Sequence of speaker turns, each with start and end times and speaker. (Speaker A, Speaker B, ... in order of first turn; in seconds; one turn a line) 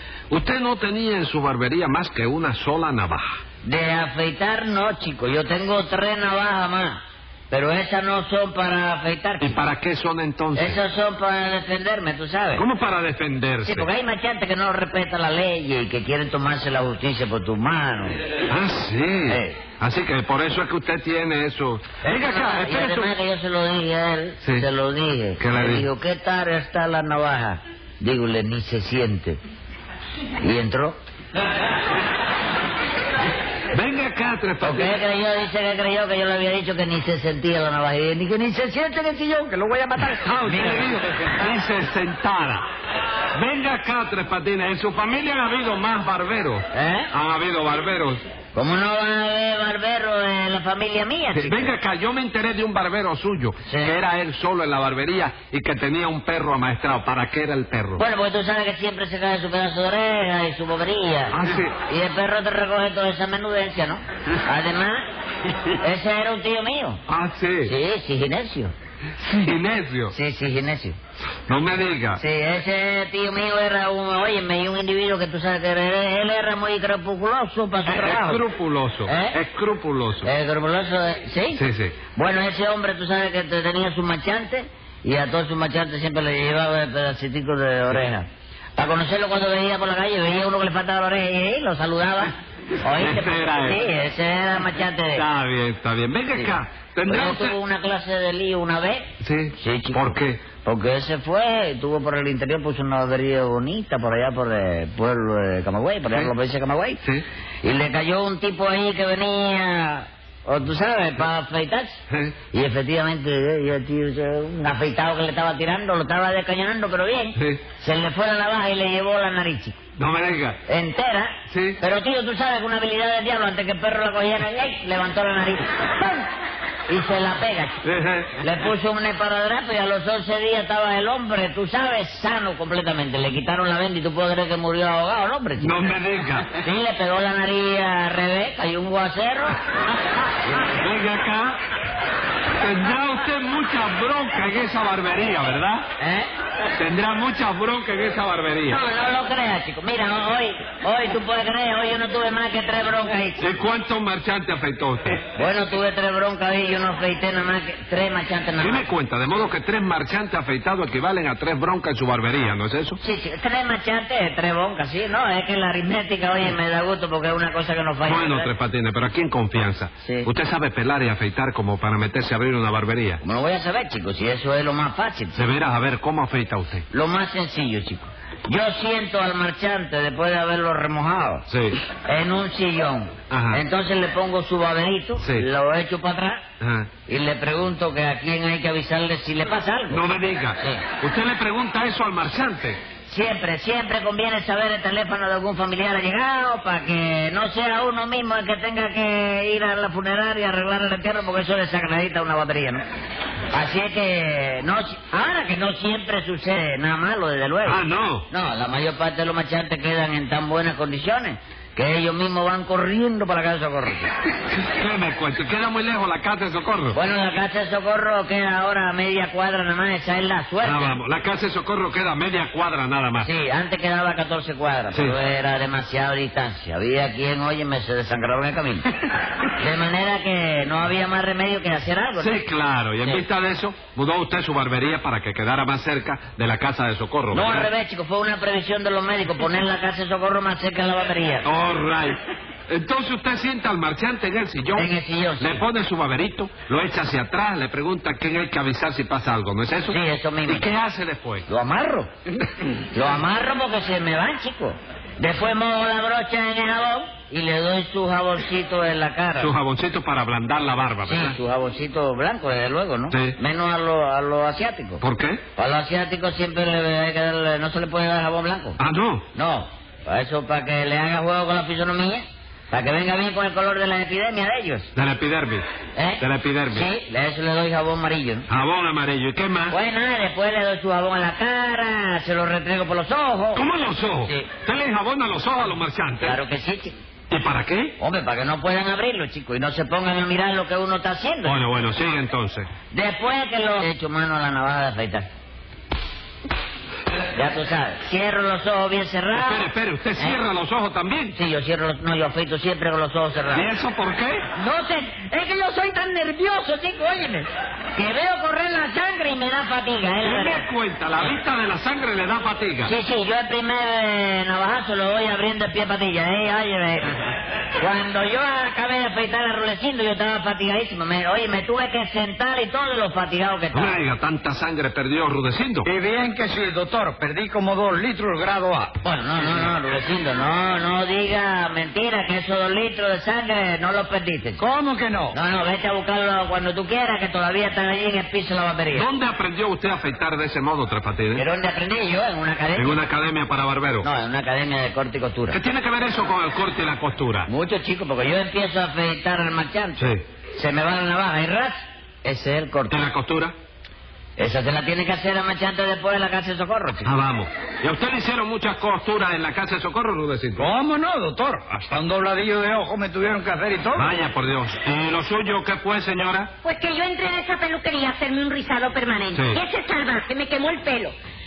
Speaker A: 0.3-3.4
Speaker B: 3.6-9.6
Speaker A: 9.4-10.8
Speaker B: 10.6-12.7
Speaker A: 12.6-13.9
Speaker B: 13.6-18.2
Speaker A: 18.5-23.1
Speaker B: 19.3-19.6
Speaker B: 22.0-29.4
Speaker A: 25.4-25.9
Speaker B: 30.4-31.0
Speaker A: 33.7-35.0
Speaker B: 34.6-41.0
Speaker A: 40.1-42.6
Speaker A: 43.4-48.2
Speaker B: 46.7-47.1
Speaker B: 48.5-51.7
Speaker A: 51.4-58.0
Speaker B: 53.7-53.9
Speaker B: 58.0-65.0
Speaker A: 61.3-61.7
Speaker B: 65.8-67.0
Speaker A: 67.1-67.7
Speaker B: 67.7-68.7
Speaker A: 69.2-70.2
Speaker B: 70.1-71.0
Speaker A: 71.5-72.2
Speaker B: 72.2-78.4
Speaker A: 77.9-80.3
Speaker B: 79.1-79.4
Speaker B: 80.2-88.3
Speaker A: 81.5-82.0
Speaker B: 88.8-95.2
Speaker A: 93.0-93.8
Speaker A: 95.2-97.6
Speaker B: 96.3-99.1
Speaker A: 99.2-100.4
Speaker B: 99.6-107.0
Speaker B: 107.6-119.8
Speaker A: 112.1-112.3
Speaker A: 120.0-120.6
Speaker B: 120.7-126.3
Speaker A: 121.5-121.8
Speaker B: 126.9-127.8
Speaker A: 127.8-128.5
Speaker B: 128.4-135.7
Speaker A: 135.6-136.6
Speaker B: 136.6-139.6
Speaker A: 140.6-141.6
Speaker A: 142.6-145.8
Speaker B: 146.0-146.3
Speaker A: 146.8-148.8
Speaker B: 148.7-153.4
Speaker A: 153.4-155.2
Speaker B: 155.4-158.9
Speaker A: 158.6-163.0
Speaker B: 163.0-168.5
Speaker A: 168.1-173.2
Speaker B: 170.0-170.3
Speaker B: 173.2-175.4
Speaker A: 175.3-176.8
Speaker B: 176.9-181.4
Speaker A: 181.5-181.8
Speaker B: 182.0-186.4
Speaker A: 183.3-183.6
Speaker A: 185.2-185.5
Speaker A: 186.6-186.9
Speaker B: 187.1-190.0
Speaker A: 189.9-192.8
Speaker B: 190.6-190.8
Speaker B: 193.1-202.8
Speaker B: 203.5-214.1
Speaker A: 207.7-208.3
Speaker A: 214.5-217.0
Speaker B: 216.9-221.0
Speaker A: 220.6-223.3
Speaker B: 223.2-228.9
Speaker A: 224.9-225.2
Speaker B: 229.5-232.4
Speaker A: 232.2-237.7
Speaker B: 237.3-241.5
Speaker A: 241.4-251.5
Speaker B: 244.8-245.6
Speaker B: 249.9-250.7
Speaker B: 251.5-252.1
Speaker B: 252.9-259.6
Speaker A: 259.4-261.4
Speaker B: 261.1-265.0
Speaker A: 263.1-263.4
Speaker A: 265.0-265.4
Speaker B: 265.6-268.8
Speaker A: 268.8-269.2
Speaker B: 269.3-274.9
Speaker A: 274.9-275.6
Speaker B: 276.0-278.5
Speaker A: 276.2-276.9
Speaker A: 278.5-279.8
Speaker B: 279.7-283.7
Speaker A: 283.6-286.4
Speaker B: 286.2-286.9
Speaker A: 287.3-288.0
Speaker B: 288.0-291.6
Speaker A: 291.4-292.7
Speaker B: 292.9-295.3
Speaker B: 297.3-300.4
Speaker A: 299.4-301.4
Speaker B: 301.4-303.7
Speaker A: 303.5-304.5
Speaker B: 304.6-307.4
Speaker B: 307.9-310.6
Speaker A: 310.2-312.9
Speaker B: 312.9-324.0
Speaker A: 323.7-325.9
Speaker C: 325.9-328.9
Speaker B: 329.0-334.6
Speaker C: 334.6-335.4
Speaker B: 335.3-339.1
Speaker A: 338.9-341.4
Speaker B: 341.4-343.0
Speaker A: 342.8-344.1
Speaker B: 344.0-345.6
Speaker A: 345.5-347.5
Speaker B: 347.5-353.0
Speaker A: 352.9-353.5
Speaker B: 354.4-357.1
Speaker A: 357.1-360.7
Speaker C: 360.6-364.1
Speaker A: 364.0-366.5
Speaker D: 366.6-371.1
Speaker A: 369.3-369.6